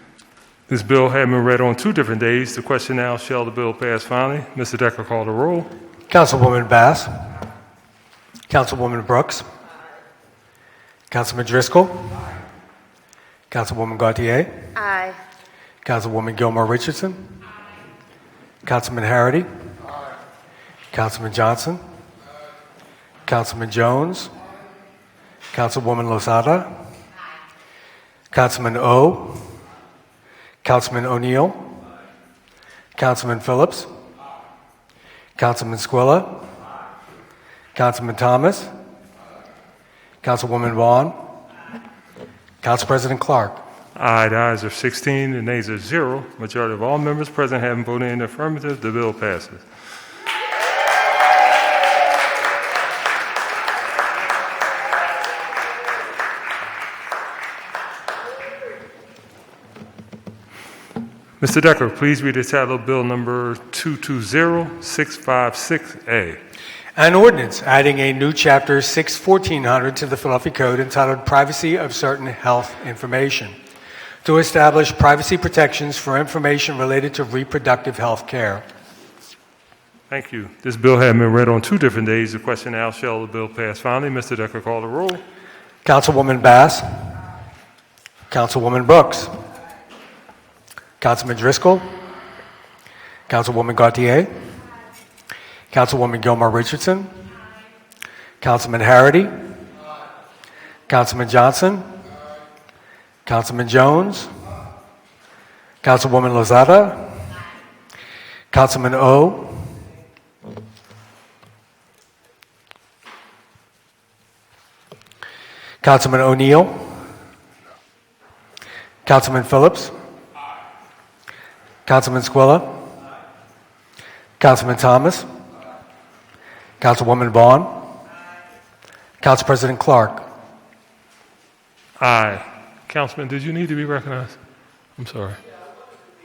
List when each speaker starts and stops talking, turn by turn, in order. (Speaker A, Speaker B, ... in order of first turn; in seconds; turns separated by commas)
Speaker A: 0.7-5.7, Speaker B: 6.1-7.1, Speaker B: 8.5-9.4, Speaker B: 11.1-12.2, Speaker B: 13.5-14.7, Speaker B: 15.8-17.2, Speaker B: 18.6-19.5, Speaker B: 20.9-21.8, Speaker B: 23.2-24.3, Speaker B: 25.5-26.7, Speaker B: 28.3-29.4, Speaker B: 30.6-31.6, Speaker B: 32.9-33.9, Speaker B: 35.4-36.4, Speaker B: 37.7-38.7, Speaker B: 40.2-41.1, Speaker B: 42.6-43.6, Speaker A: 43.9-49.6, Speaker A: 61.4-66.4, Speaker B: 67.0-73.5, Speaker B: 74.2-78.6, Speaker A: 80.1-85.2, Speaker B: 85.8-86.8, Speaker B: 88.3-89.3, Speaker B: 91.0-92.0, Speaker B: 93.3-94.3, Speaker B: 95.7-97.1, Speaker B: 98.4-99.3, Speaker B: 100.9-101.8, Speaker B: 103.2-104.3, Speaker B: 105.8-107.2, Speaker B: 108.5-109.7, Speaker B: 115.8-116.9, Speaker B: 119.0-119.9, Speaker B: 121.8-122.7, Speaker B: 124.4-125.2, Speaker B: 126.8-127.8, Speaker B: 129.2-130.2, Speaker A: 132.0-134.4, Speaker A: 135.0-135.4